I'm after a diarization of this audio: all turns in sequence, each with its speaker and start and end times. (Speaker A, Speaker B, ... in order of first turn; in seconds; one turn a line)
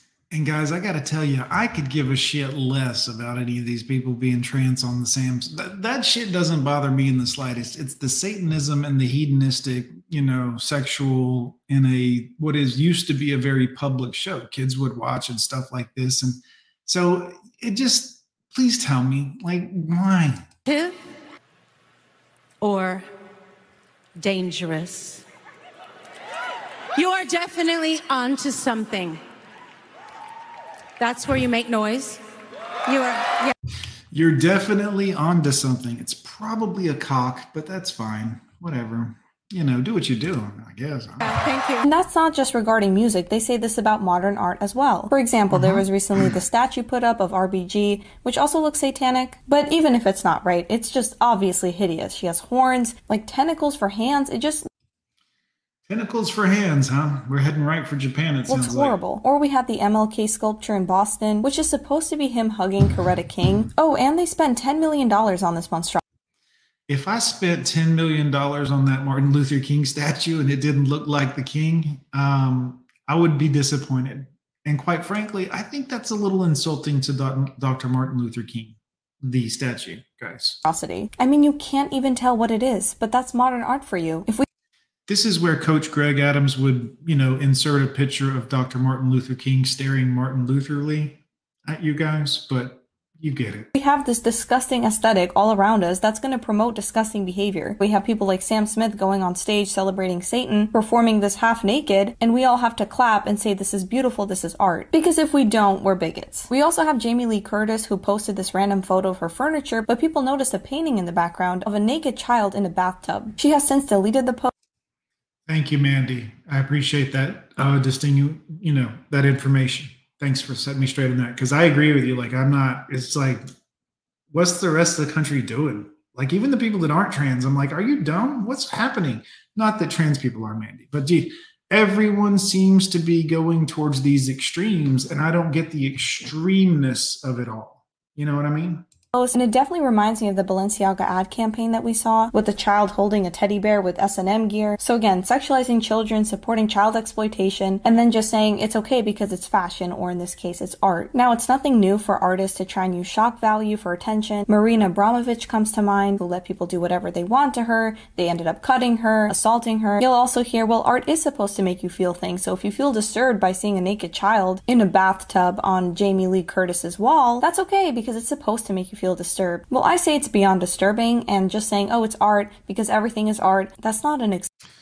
Speaker A: 0.3-20.4
Speaker B: 20.6-21.0
Speaker B: 22.6-23.1
Speaker B: 24.1-25.2
Speaker B: 26.9-29.2
Speaker B: 31.0-32.2
Speaker B: 32.8-33.5
Speaker A: 34.1-41.2
Speaker B: 41.2-41.9
Speaker C: 41.9-54.7
Speaker A: 45.5-46.3
Speaker A: 55.9-59.0
Speaker C: 58.5-66.0
Speaker A: 66.9-80.6
Speaker C: 80.7-84.4
Speaker A: 85.1-93.7
Speaker C: 93.7-114.5
Speaker A: 115.5-123.4
Speaker A: 124.3-138.8
Speaker C: 139.1-174.5